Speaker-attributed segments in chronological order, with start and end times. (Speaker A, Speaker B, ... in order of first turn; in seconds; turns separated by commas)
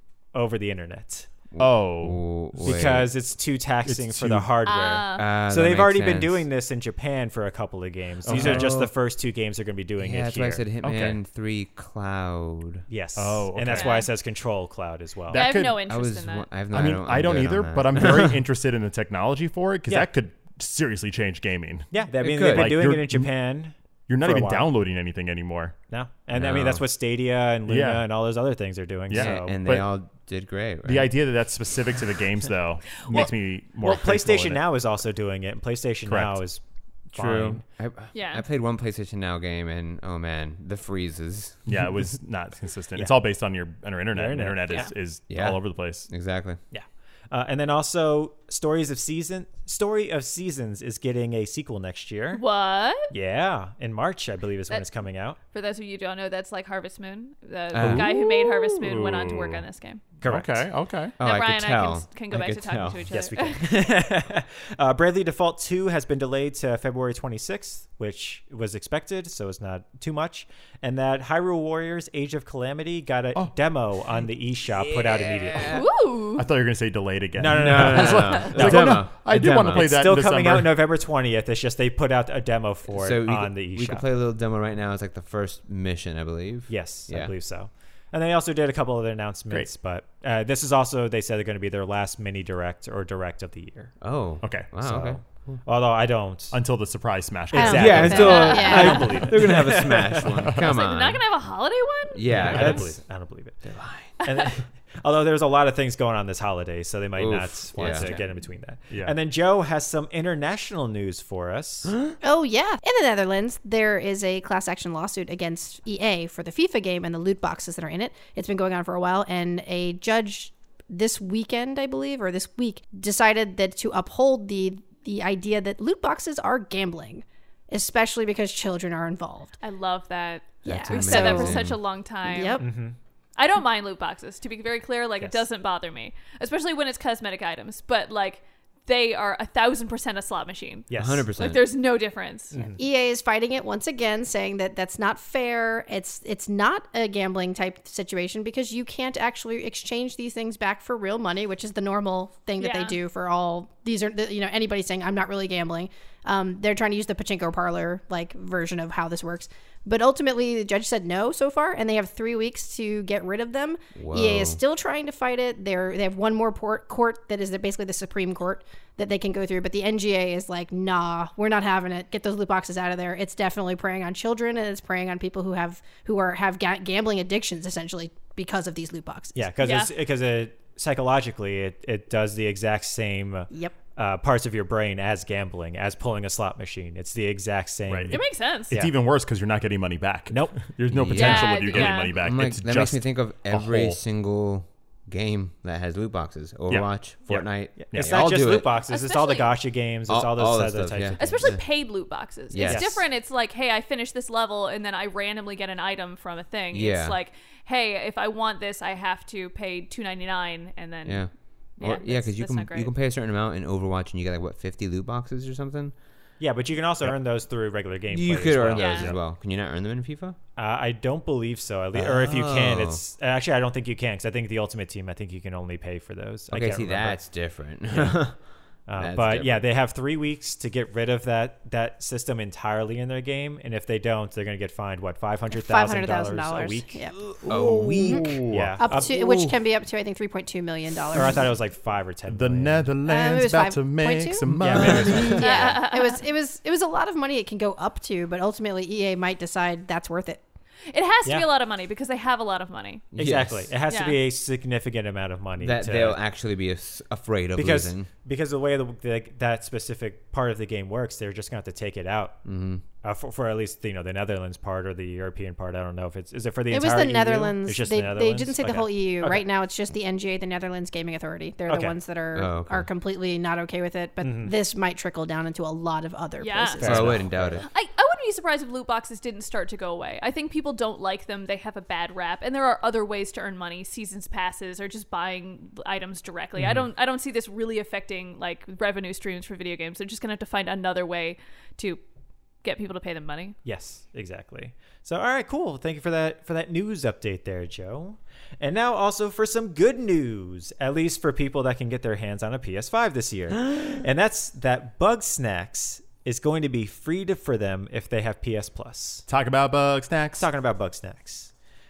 Speaker A: 0.3-1.3, Speaker B: 1.5-3.1, Speaker C: 1.6-2.7, Speaker A: 2.6-10.6, Speaker C: 3.9-4.5, Speaker D: 4.7-5.3, Speaker B: 5.1-6.5, Speaker C: 8.2-8.9, Speaker B: 8.3-8.9, Speaker B: 10.0-12.8, Speaker C: 10.8-11.2, Speaker A: 12.9-15.4, Speaker C: 13.2-14.0, Speaker D: 13.7-14.1, Speaker C: 15.3-15.8, Speaker D: 15.3-16.5, Speaker B: 15.8-18.4, Speaker C: 16.7-23.3, Speaker A: 21.9-24.7, Speaker B: 22.2-22.9, Speaker C: 24.1-25.8, Speaker A: 25.9-29.6, Speaker B: 26.3-26.8, Speaker C: 27.7-28.0, Speaker C: 29.1-29.9, Speaker B: 29.1-31.1, Speaker C: 30.8-34.6, Speaker A: 33.8-36.6, Speaker C: 36.0-36.4, Speaker A: 37.1-37.6, Speaker B: 37.1-41.7, Speaker D: 38.1-38.5, Speaker C: 41.6-46.1, Speaker A: 44.1-44.9, Speaker B: 45.3-46.6, Speaker A: 46.7-52.4, Speaker D: 52.3-53.1, Speaker A: 53.1-55.4, Speaker D: 55.5-60.0, Speaker B: 57.7-58.1, Speaker C: 57.8-59.6, Speaker A: 60.2-60.7, Speaker C: 60.2-61.1, Speaker B: 61.2-63.0, Speaker D: 61.2-63.7, Speaker A: 63.1-75.8, Speaker B: 74.8-75.8, Speaker D: 75.7-76.5, Speaker C: 76.3-80.7, Speaker A: 77.4-84.0, Speaker B: 77.5-79.9, Speaker B: 82.9-87.3, Speaker A: 86.7-94.0, Speaker B: 94.0-95.7, Speaker C: 94.4-94.7, Speaker A: 94.5-96.6, Speaker C: 96.5-98.4, Speaker A: 97.5-100.4, Speaker E: 97.5-99.3, Speaker B: 97.6-101.2, Speaker D: 98.1-99.2, Speaker C: 100.4-100.7, Speaker D: 100.5-102.8, Speaker B: 102.1-103.0, Speaker A: 102.3-111.9, Speaker B: 103.6-104.2, Speaker B: 107.2-108.1, Speaker C: 108.9-109.2, Speaker E: 112.2-129.5, Speaker D: 129.6-132.6, Speaker B: 130.6-131.8, Speaker E: 130.6-131.7, Speaker E: 132.2-132.7, Speaker A: 132.6-132.9, Speaker D: 133.4-142.7, Speaker A: 140.9-141.3, Speaker B: 140.9-141.6, Speaker A: 142.5-142.8, Speaker E: 142.8-179.4, Speaker D: 152.6-153.0, Speaker B: 163.9-164.6, Speaker A: 179.3-188.9, Speaker D: 179.6-179.9, Speaker C: 187.9-188.2, Speaker D: 188.1-188.7, Speaker C: 188.7-194.0, Speaker A: 190.3-190.6, Speaker B: 190.9-198.7, Speaker D: 191.1-192.2, Speaker A: 197.3-201.5, Speaker D: 198.9-199.5, Speaker B: 200.1-201.6, Speaker D: 201.2-211.2, Speaker B: 202.5-203.0, Speaker A: 202.6-203.0, Speaker B: 206.7-207.2, Speaker B: 211.0-215.9, Speaker D: 211.8-212.9, Speaker A: 216.4-219.1, Speaker B: 218.1-220.4, Speaker D: 218.8-219.1, Speaker A: 220.6-227.2, Speaker B: 221.9-223.0, Speaker B: 226.5-228.4, Speaker A: 227.9-228.2, Speaker A: 228.8-237.0, Speaker B: 229.0-229.7, Speaker E: 235.5-237.2, Speaker B: 237.2-238.4, Speaker C: 237.4-238.8, Speaker E: 238.0-241.4, Speaker A: 238.5-239.1, Speaker B: 239.2-239.4, Speaker A: 241.1-242.9, Speaker C: 242.3-245.4, Speaker E: 243.1-250.4, Speaker A: 244.6-245.2, Speaker B: 244.8-245.4, Speaker D: 245.4-246.2, Speaker D: 250.9-253.1, Speaker B: 253.1-253.7, Speaker A: 253.1-256.2, Speaker D: 253.9-254.2, Speaker B: 255.6-258.1, Speaker A: 257.5-262.4, Speaker B: 262.4-262.8, Speaker A: 263.0-269.4, Speaker E: 266.7-277.2, Speaker A: 271.7-272.0, Speaker B: 272.3-272.9, Speaker A: 274.2-274.5, Speaker D: 276.4-276.8, Speaker A: 276.8-277.6, Speaker B: 276.8-277.6, Speaker D: 277.6-292.0, Speaker A: 286.6-286.9, Speaker D: 292.6-293.6, Speaker A: 293.6-309.2, Speaker C: 309.3-310.5, Speaker A: 310.4-311.5